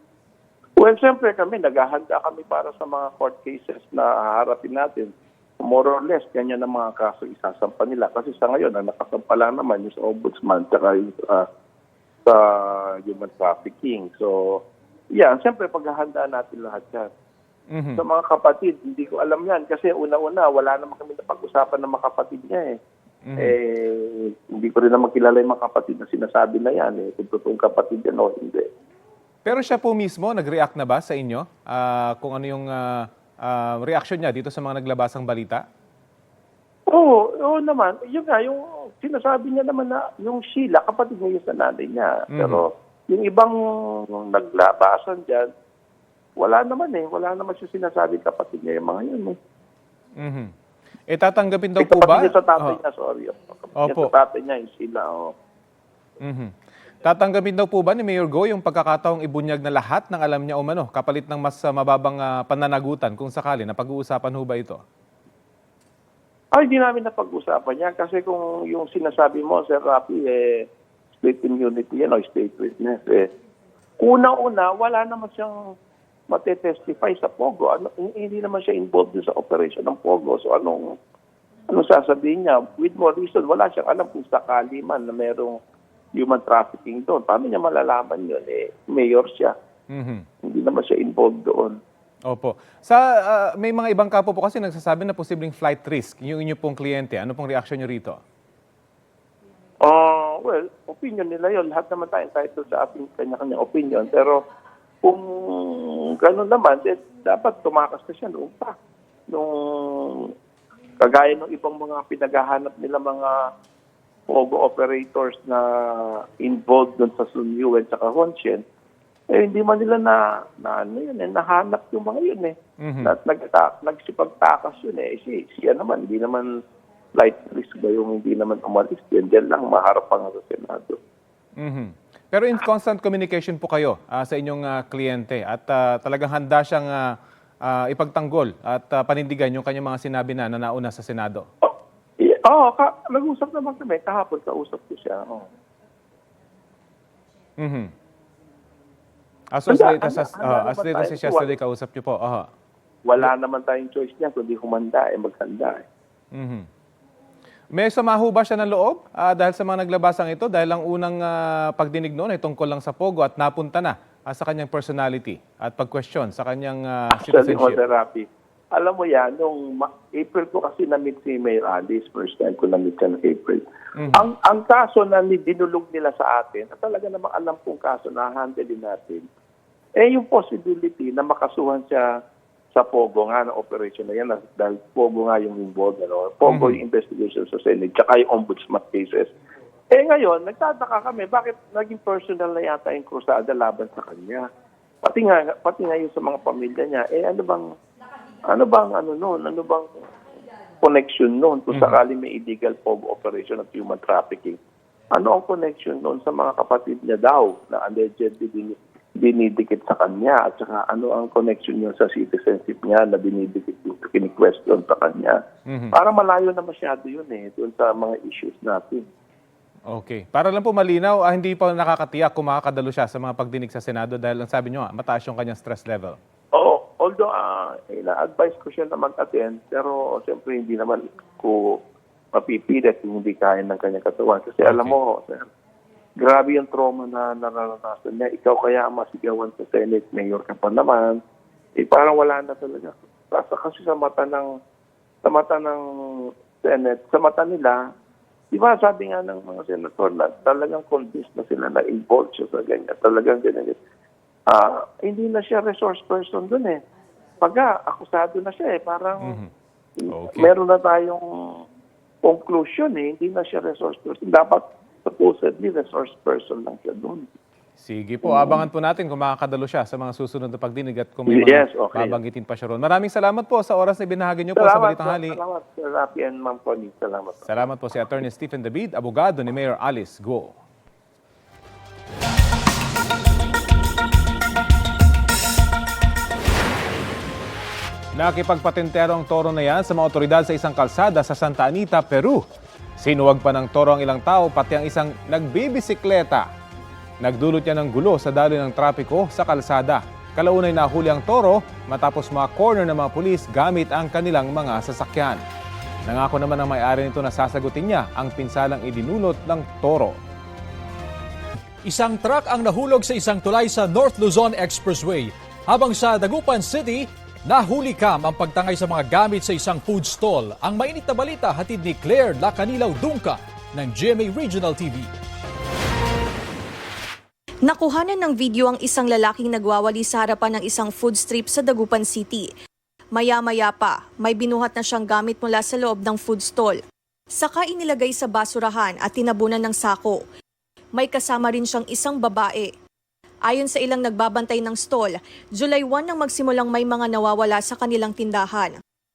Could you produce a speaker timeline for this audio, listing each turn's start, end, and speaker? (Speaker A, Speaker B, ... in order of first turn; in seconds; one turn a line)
Speaker A: 0.8-11.5
Speaker A: 12.2-14.6
Speaker A: 15.1-17.1
Speaker B: 17.7-18.0
Speaker A: 18.0-22.8
Speaker B: 23.2-23.5
Speaker A: 23.4-28.6
Speaker B: 29.4-35.6
Speaker A: 36.9-45.5
Speaker B: 42.3-42.6
Speaker A: 46.4-49.4
Speaker B: 50.2-50.5
Speaker B: 51.1-52.8
Speaker A: 51.8-55.3
Speaker B: 53.8-54.1
Speaker B: 56.2-56.5
Speaker B: 57.0-64.8
Speaker A: 66.5-70.7
Speaker A: 71.2-73.3
Speaker A: 74.0-75.7
Speaker A: 76.3-81.0
Speaker A: 81.7-85.6
Speaker A: 86.2-89.5
Speaker B: 89.9-90.2
Speaker A: 90.4-91.8
Speaker B: 92.2-98.2
Speaker A: 99.8-104.4
Speaker A: 105.0-108.7
Speaker A: 109.3-110.3
Speaker A: 111.0-113.3
Speaker A: 114.3-118.6
Speaker A: 119.3-126.6
Speaker B: 122.8-123.1
Speaker A: 127.2-131.0
Speaker B: 131.6-141.5
Speaker A: 141.6-145.4
Speaker B: 147.6-147.9
Speaker B: 149.5-152.5
Speaker A: 149.7-151.5
Speaker A: 153.0-155.8
Speaker B: 156.3-156.7
Speaker B: 157.7-167.8
Speaker A: 167.2-179.2
Speaker B: 173.9-174.2
Speaker A: 180.0-182.1
Speaker A: 182.8-189.3
Speaker B: 186.4-186.8
Speaker A: 189.9-194.4
Speaker A: 195.0-197.7
Speaker A: 198.4-199.9
Speaker A: 200.8-204.6
Speaker B: 201.7-202.0
Speaker A: 205.1-215.4
Speaker B: 215.7-215.9
Speaker A: 215.9-219.0
Speaker B: 219.9-226.2
Speaker A: 226.5-231.8
Speaker A: 232.3-235.5
Speaker B: 234.6-234.9
Speaker A: 236.2-241.2
Speaker A: 241.8-244.5
Speaker A: 245.2-247.8
Speaker A: 248.5-253.8
Speaker A: 254.5-256.8
Speaker A: 257.4-259.4
Speaker B: 259.2-259.5
Speaker A: 260.0-261.6
Speaker B: 260.1-260.5
Speaker A: 262.2-267.2
Speaker B: 267.8-275.4
Speaker A: 268.2-268.6
Speaker A: 271.3-272.2
Speaker A: 274.6-277.5
Speaker B: 277.4-280.5
Speaker B: 288.1-292.4
Speaker B: 293.0-296.5
Speaker B: 297.2-305.4
Speaker B: 306.1-310.2
Speaker C: 311.8-325.1
Speaker D: 327.7-332.5
Speaker D: 333.1-336.8
Speaker D: 337.4-340.2
Speaker D: 340.9-342.7
Speaker D: 343.5-348.8